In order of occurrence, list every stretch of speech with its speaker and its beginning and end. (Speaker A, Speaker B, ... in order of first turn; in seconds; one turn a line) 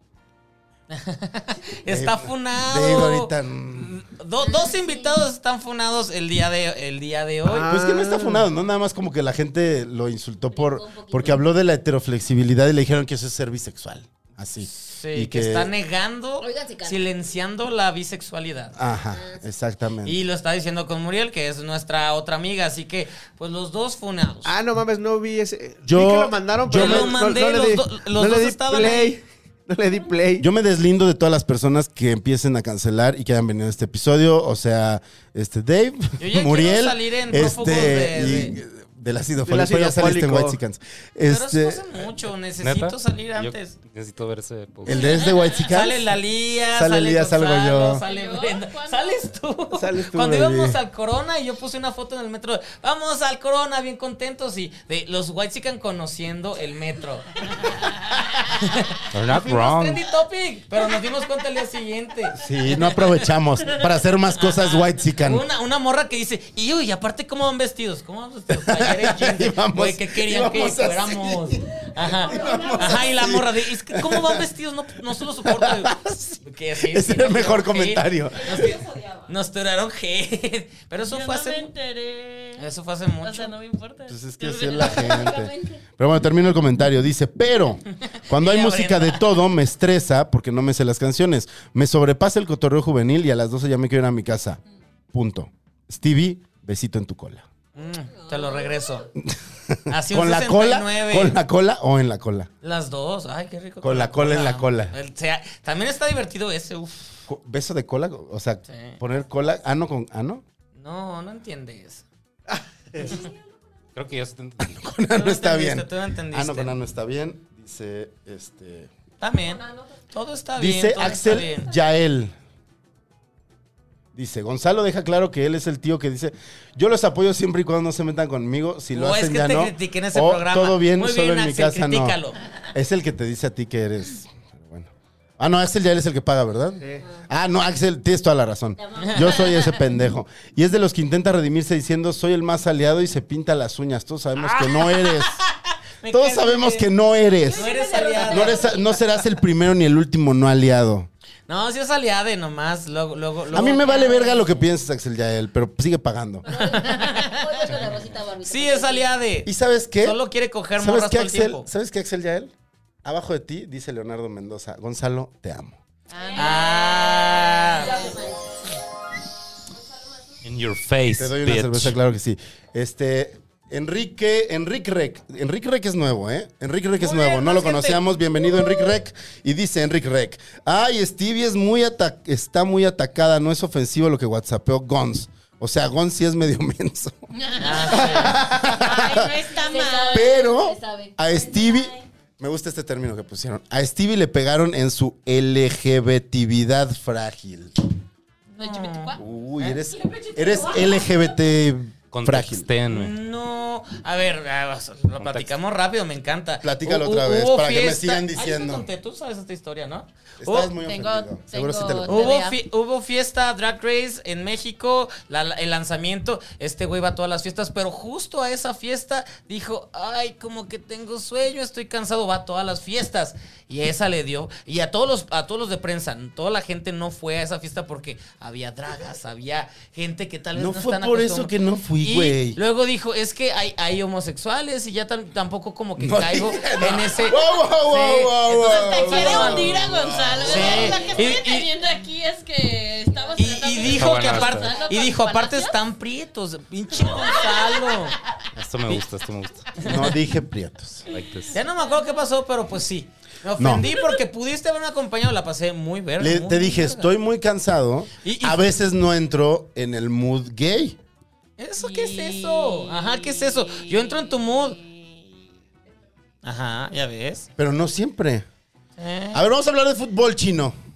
Speaker A: 0.9-7.7
Speaker B: 1.9-4.0
Speaker C: 4.4-5.1
Speaker D: 7.5-8.5
Speaker B: 7.7-15.7
Speaker E: 10.5-11.4
Speaker A: 14.7-18.7
Speaker E: 16.4-17.1
Speaker B: 18.8-20.2
Speaker E: 19.1-19.4
Speaker A: 20.1-24.5
Speaker D: 24.4-30.5
Speaker B: 25.8-27.2
Speaker A: 26.7-29.2
Speaker B: 30.4-41.8
Speaker A: 36.2-38.6
Speaker D: 39.5-40.6
Speaker A: 41.3-43.8
Speaker F: 42.6-45.1
Speaker B: 44.9-46.1
Speaker C: 45.1-45.5
Speaker A: 45.6-63.3
Speaker B: 46.7-48.0
Speaker C: 47.9-49.3
Speaker B: 49.7-50.8
Speaker F: 59.1-60.0
Speaker B: 62.4-65.5
Speaker A: 64.3-81.7
Speaker B: 68.5-74.5
Speaker B: 75.4-78.8
Speaker C: 81.0-82.6
Speaker A: 82.6-83.5
Speaker C: 83.2-84.2
Speaker B: 84.1-94.6
Speaker A: 84.4-85.2
Speaker E: 84.9-85.8
Speaker A: 88.3-89.3
Speaker B: 95.1-97.5
Speaker A: 97.8-99.1
Speaker E: 98.1-99.0
Speaker B: 99.2-102.5
Speaker A: 99.9-101.4
Speaker A: 102.6-107.2
Speaker B: 103.8-105.0
Speaker B: 107.3-110.4
Speaker A: 108.7-109.0
Speaker A: 110.8-112.0
Speaker D: 112.5-113.2
Speaker F: 114.0-114.7
Speaker B: 114.6-118.9
Speaker A: 115.1-116.8
Speaker A: 119.2-121.7
Speaker B: 120.6-122.3
Speaker B: 124.1-132.2
Speaker A: 128.9-132.4
Speaker B: 132.7-145.4
Speaker E: 138.8-139.8
Speaker A: 139.0-139.4
Speaker A: 144.4-146.9
Speaker B: 146.1-151.1
Speaker E: 147.5-149.0
Speaker A: 147.5-148.8
Speaker C: 147.8-148.4
Speaker A: 151.5-154.7
Speaker B: 153.5-156.5
Speaker E: 156.4-159.1
Speaker A: 156.5-157.9
Speaker A: 158.4-161.7
Speaker B: 159.4-160.2
Speaker B: 160.8-162.5
Speaker B: 163.0-165.8
Speaker C: 166.1-168.2
Speaker E: 166.2-168.4
Speaker A: 166.3-168.1
Speaker F: 170.4-171.9
Speaker B: 171.2-187.2
Speaker A: 177.0-178.0
Speaker C: 187.3-190.4
Speaker A: 187.6-188.6
Speaker B: 187.9-189.3
Speaker E: 189.4-192.0
Speaker B: 190.1-197.8
Speaker C: 198.5-199.2
Speaker A: 198.6-199.8
Speaker B: 199.2-202.7
Speaker E: 200.2-201.1
Speaker F: 202.1-203.1
Speaker A: 202.9-210.7
Speaker F: 205.2-205.5
Speaker B: 206.6-208.9
Speaker B: 210.4-212.4
Speaker C: 210.8-212.6
Speaker A: 212.1-239.8
Speaker B: 230.5-232.6
Speaker B: 236.0-241.2
Speaker C: 238.5-245.7
Speaker A: 240.4-241.7
Speaker A: 243.4-248.2
Speaker F: 243.8-244.8
Speaker C: 247.0-248.4
Speaker F: 248.6-249.7
Speaker A: 249.8-250.1
Speaker B: 249.8-251.1
Speaker F: 251.1-251.6
Speaker A: 251.5-257.1
Speaker B: 253.6-253.9
Speaker B: 256.2-261.0
Speaker A: 258.2-258.6
Speaker A: 261.6-264.8
Speaker C: 261.8-265.5
Speaker A: 266.4-267.5
Speaker B: 267.6-268.4
Speaker A: 269.0-269.4
Speaker B: 269.3-270.7